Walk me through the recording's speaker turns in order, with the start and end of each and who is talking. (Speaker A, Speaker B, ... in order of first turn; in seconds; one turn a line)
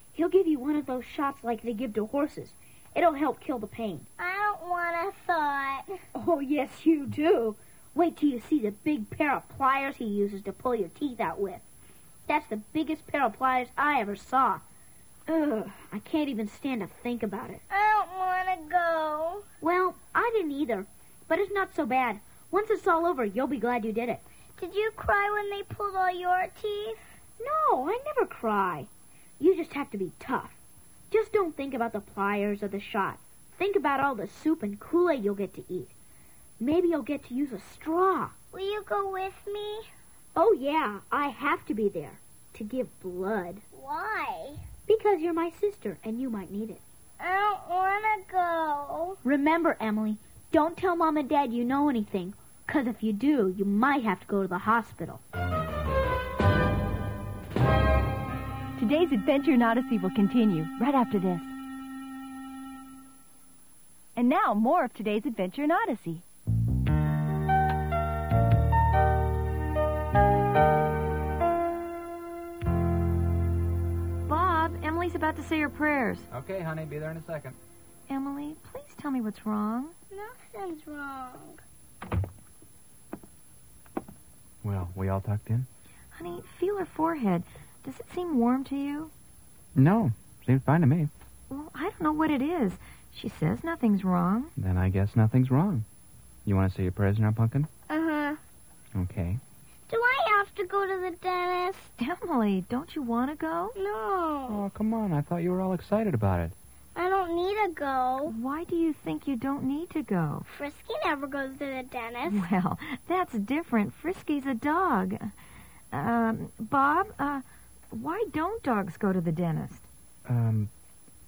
Speaker A: 0.1-4.0
Speaker B: 4.2-5.9
Speaker A: 6.1-11.6
Speaker A: 12.3-14.6
Speaker A: 15.3-17.6
Speaker B: 17.7-19.4
Speaker A: 19.6-24.2
Speaker B: 24.6-27.0
Speaker A: 27.4-28.9
Speaker A: 29.4-30.6
Speaker A: 31.1-35.9
Speaker A: 36.6-38.3
Speaker B: 38.5-39.9
Speaker A: 40.4-43.6
Speaker B: 43.7-44.6
Speaker A: 44.9-46.8
Speaker B: 47.2-49.2
Speaker A: 49.2-55.2
Speaker C: 58.8-61.5
Speaker C: 64.2-66.2
Speaker D: 74.3-76.2
Speaker E: 76.3-77.6
Speaker D: 78.1-79.9
Speaker B: 80.1-81.6
Speaker E: 84.6-85.7
Speaker D: 86.1-89.1
Speaker E: 89.8-91.1
Speaker D: 91.5-94.5
Speaker E: 94.6-95.9
Speaker E: 96.4-97.7
Speaker B: 97.9-98.4
Speaker E: 98.9-99.4
Speaker B: 99.9-101.9
Speaker D: 102.0-103.8
Speaker B: 103.8-104.7
Speaker E: 104.5-106.5
Speaker B: 106.9-108.3
Speaker D: 108.2-110.4
Speaker B: 110.5-112.5
Speaker D: 112.3-115.2
Speaker D: 115.9-119.9
Speaker E: 120.2-120.7